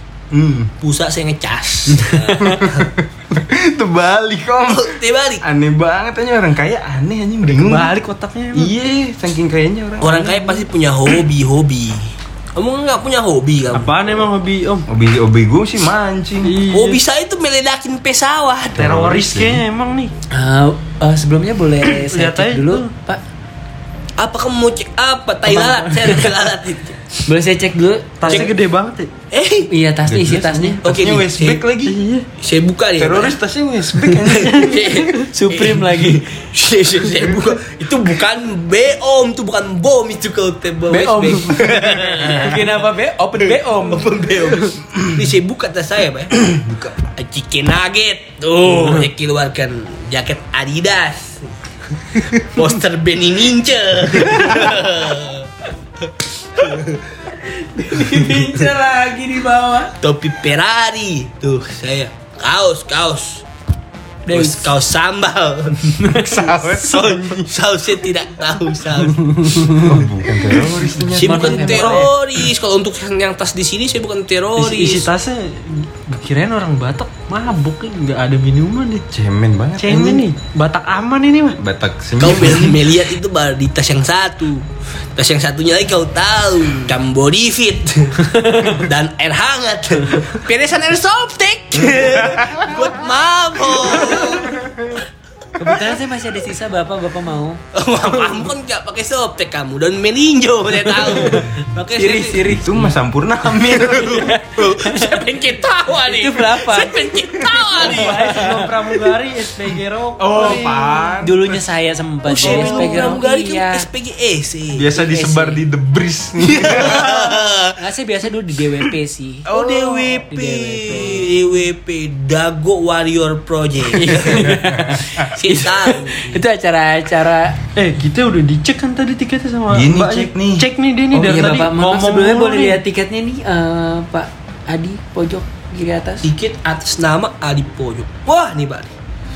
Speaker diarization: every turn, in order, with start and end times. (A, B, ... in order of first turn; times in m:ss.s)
0:00.3-0:00.7 A
0:00.8-0:02.9 B
0:02.0-0:02.6 C
0:02.4-0:07.9 A
0:04.6-0:05.4 B
0:07.5-0:08.7 D
0:08.5-0:10.7 A
0:10.0-0:13.9 B
0:13.7-0:14.8 D
0:14.9-0:16.6 A
0:16.4-0:17.0 D
0:16.7-0:18.9 B
0:18.8-0:19.6 A
0:18.8-0:20.1 D
0:20.3-0:23.2 C
0:21.8-0:22.9 D
0:24.2-0:27.2 B
0:25.5-0:26.0 C
0:27.2-0:28.5 C
0:28.2-0:29.1 D
0:29.3-0:29.7 B
0:29.7-0:30.8 C
0:30.1-0:32.0 A
0:30.8-0:31.6 B
0:31.9-0:32.3 D
0:32.4-0:33.4 B
0:33.0-0:34.8 A
0:34.1-0:42.7 B
0:35.3-0:36.2 C
0:40.9-0:44.0 C
0:43.4-0:46.4 B
0:46.5-0:47.0 A
0:47.0-0:55.5 B
0:48.7-0:49.0 C
0:56.6-0:57.0 B
0:57.4-0:59.9 C
0:58.2-0:58.6 B
1:00.0-1:03.4 B
1:04.2-1:04.7 C
1:04.3-1:09.2 B
1:06.1-1:07.5 A
1:09.4-1:09.8 D
1:09.7-1:12.0 A
1:11.1-1:15.1 B
1:11.2-1:12.1 C
1:14.6-1:19.0 D
1:19.1-1:20.3 A
1:19.8-1:21.6 D
1:21.6-1:22.7 A
1:22.2-1:24.6 B
1:25.2-1:34.6 B
1:28.4-1:28.7 C
1:35.6-1:37.6 C
1:37.7-1:42.5 B
1:41.4-1:43.0 C
1:42.5-1:44.4 A
1:43.8-1:45.1 C
1:43.9-1:48.4 B
1:46.0-1:47.0 C
1:47.8-1:48.6 C
1:47.8-1:51.1 D
1:50.2-1:51.7 A
1:51.2-1:53.8 C
1:52.2-1:54.8 B
1:54.7-1:57.3 A
1:54.9-1:55.6 C
1:56.4-1:57.7 B
1:57.8-1:59.5 C
1:59.5-2:04.6 B
1:59.5-2:00.2 A
2:00.3-2:01.3 C
2:03.9-2:07.6 C
2:05.2-2:06.4 B
2:07.8-2:12.8 D
2:09.7-2:10.7 A
2:11.1-2:16.2 C
2:16.2-2:18.9 B